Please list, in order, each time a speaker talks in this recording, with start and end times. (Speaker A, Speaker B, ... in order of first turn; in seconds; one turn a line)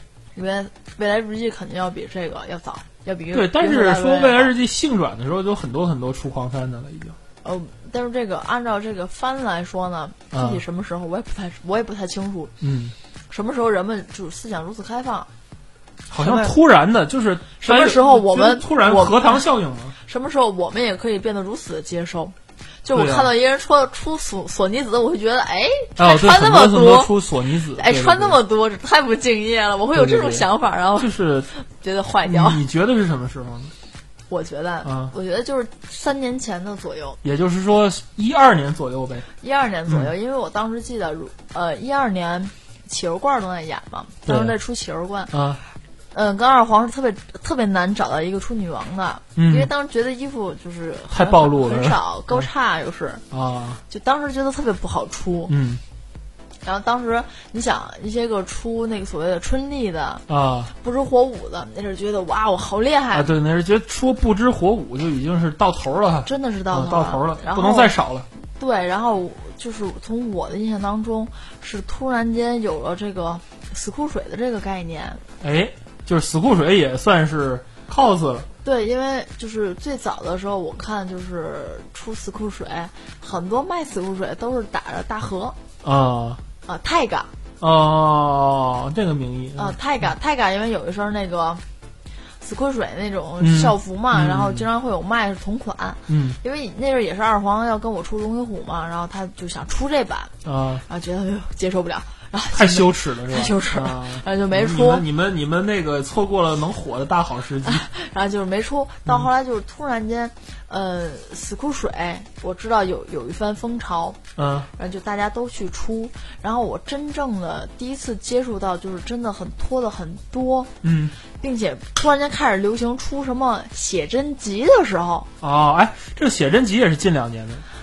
Speaker A: 0.3-4.5
Speaker B: 3.3-7.2
Speaker A: 7.4-12.5
Speaker B: 10.3-10.6
Speaker B: 12.6-12.9
Speaker A: 13.3-15.3
Speaker B: 16.1-20.0
Speaker A: 16.2-16.6
Speaker A: 17.6-19.4
Speaker A: 20.0-27.1
Speaker B: 22.9-23.3
Speaker B: 26.0-28.4
Speaker A: 27.7-32.6
Speaker B: 29.9-31.5
Speaker B: 32.2-33.7
Speaker A: 34.3-37.2
Speaker B: 34.8-35.1
Speaker B: 37.2-39.3
Speaker A: 39.4-45.4
Speaker B: 39.9-40.1
Speaker B: 44.3-44.6
Speaker B: 45.3-45.6
Speaker A: 46.1-53.2
Speaker B: 49.4-49.7
Speaker B: 51.1-52.5
Speaker B: 53.3-53.8
Speaker A: 53.9-55.5
Speaker B: 55.5-55.8
Speaker A: 56.6-63.3
Speaker B: 60.3-60.7
Speaker B: 63.1-68.3
Speaker A: 66.2-67.9
Speaker A: 68.6-75.2
Speaker B: 75.4-78.5
Speaker A: 78.6-85.6
Speaker B: 85.8-86.4
Speaker A: 86.7-87.3
Speaker B: 87.6-89.8
Speaker A: 89.6-91.6
Speaker A: 92.4-100.3
Speaker B: 93.4-94.7
Speaker B: 96.1-96.4
Speaker B: 100.4-100.8
Speaker A: 100.9-105.0
Speaker B: 102.5-107.8
Speaker A: 107.6-114.2
Speaker B: 114.4-114.7
Speaker A: 114.7-120.7
Speaker B: 120.8-121.2
Speaker A: 121.4-125.3
Speaker B: 125.4-127.7